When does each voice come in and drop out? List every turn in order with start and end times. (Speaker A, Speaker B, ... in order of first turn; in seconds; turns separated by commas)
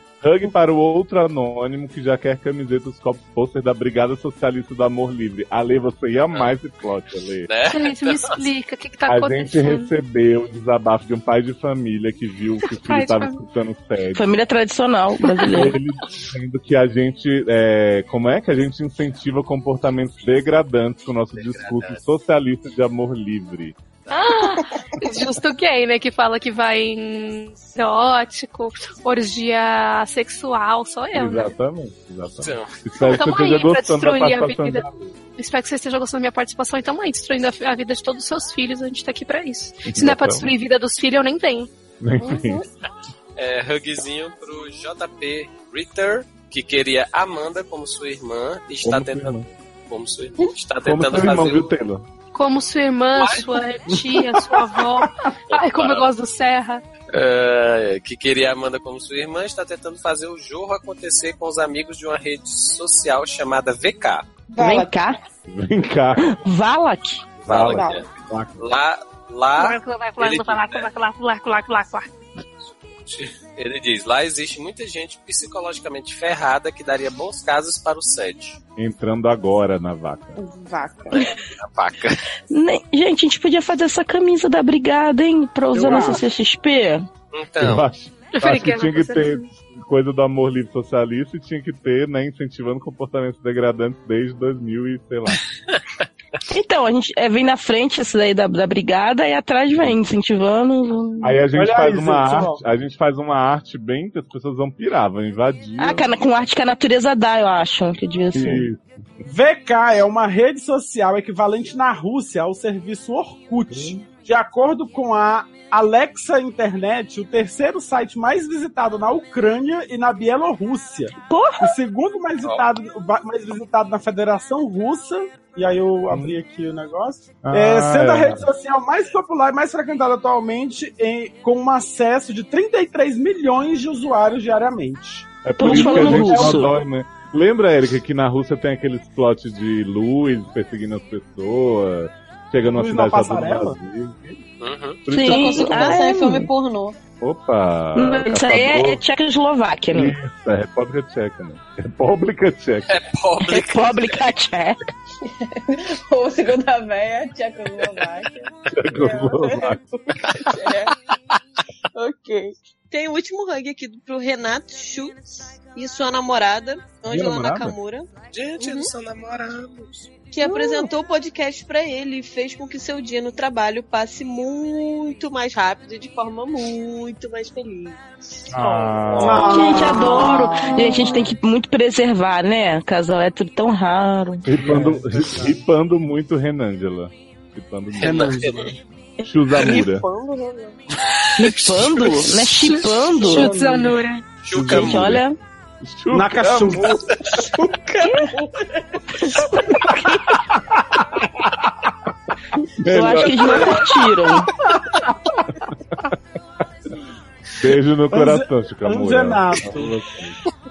Speaker A: 0.2-7.5, Speaker B: 7.5-8.4, Speaker C: 7.7-9.9, Speaker A: 9.1-14.3, Speaker C: 12.7-13.4, Speaker D: 14.1-15.8, Speaker A: 15.5-23.8, Speaker B: 21.3-22.0, Speaker C: 24.1-31.5, Speaker A: 31.1-35.1, Speaker B: 32.4-32.7, Speaker C: 33.0-34.9, Speaker C: 35.4-41.7, Speaker A: 39.9-40.5, Speaker A: 42.0-42.6, Speaker E: 42.2-42.7, Speaker B: 43.4-51.7, Speaker A: 48.8-49.5, Speaker A: 50.8-52.0, Speaker C: 52.3-56.8, Speaker B: 53.2-53.5, Speaker B: 55.5-56.1, Speaker B: 57.1-64.2, Speaker E: 64.5-64.9, Speaker D: 64.6-65.2, Speaker A: 65.5-66.4, Speaker D: 66.3-67.3, Speaker A: 67.5-68.6, Speaker B: 67.5-70.9, Speaker E: 67.7-68.0, Speaker C: 69.5-72.1, Speaker B: 72.8-78.6, Speaker A: 78.8-80.4, Speaker E: 80.4-81.4, Speaker B: 81.1-82.2, Speaker D: 82.5-87.0, Speaker F: 85.7-86.2, Speaker B: 87.3-87.8, Speaker A: 87.6-95.4, Speaker C: 88.3-89.5, Speaker D: 96.5-101.4, Speaker A: 101.2-106.2, Speaker F: 101.5-102.6, Speaker D: 105.8-108.7, Speaker A: 108.3-108.8, Speaker F: 109.2-136.7, Speaker A: 113.7-114.0, Speaker D: 121.2-121.7, Speaker A: 126.1-126.3, Speaker A: 127.4-128.5, Speaker A: 135.4-144.4, Speaker D: 135.6-136.7, Speaker F: 142.7-143.8, Speaker B: 144.6-145.0, Speaker A: 145.1-146.0, Speaker D: 145.1-146.5, Speaker E: 145.2-147.0, Speaker A: 147.2-149.0, Speaker D: 147.9-150.1, Speaker A: 149.9-153.0, Speaker B: 152.9-154.2, Speaker D: 153.4-154.8, Speaker E: 155.2-161.0, Speaker A: 158.7-160.3, Speaker E: 161.9-165.2, Speaker E: 165.7-168.9, Speaker A: 167.1-167.8, Speaker B: 168.3-170.1, Speaker E: 170.3-179.1, Speaker F: 170.4-170.9, Speaker A: 178.5-179.8, Speaker B: 179.0-179.4, Speaker F: 179.2-181.3, Speaker D: 179.5-184.4, Speaker E: 179.8-180.0, Speaker A: 184.4-188.5, Speaker F: 184.6-185.5, Speaker B: 188.0-188.7, Speaker F: 188.1-188.7, Speaker A: 189.2-190.0, Speaker E: 189.2-190.8, Speaker D: 191.4-193.5, Speaker C: 192.7-194.2, Speaker F: 193.2-194.0, Speaker B: 194.4-195.2, Speaker A: 194.5-195.2, Speaker D: 194.6-195.4, Speaker A: 195.8-197.0, Speaker F: 196.1-197.0, Speaker E: 197.2-199.9, Speaker A: 202.8-203.8, Speaker D: 202.9-204.5, Speaker E: 203.0-203.9, Speaker F: 204.8-205.4, Speaker A: 207.6-210.4, Speaker F: 208.1-210.0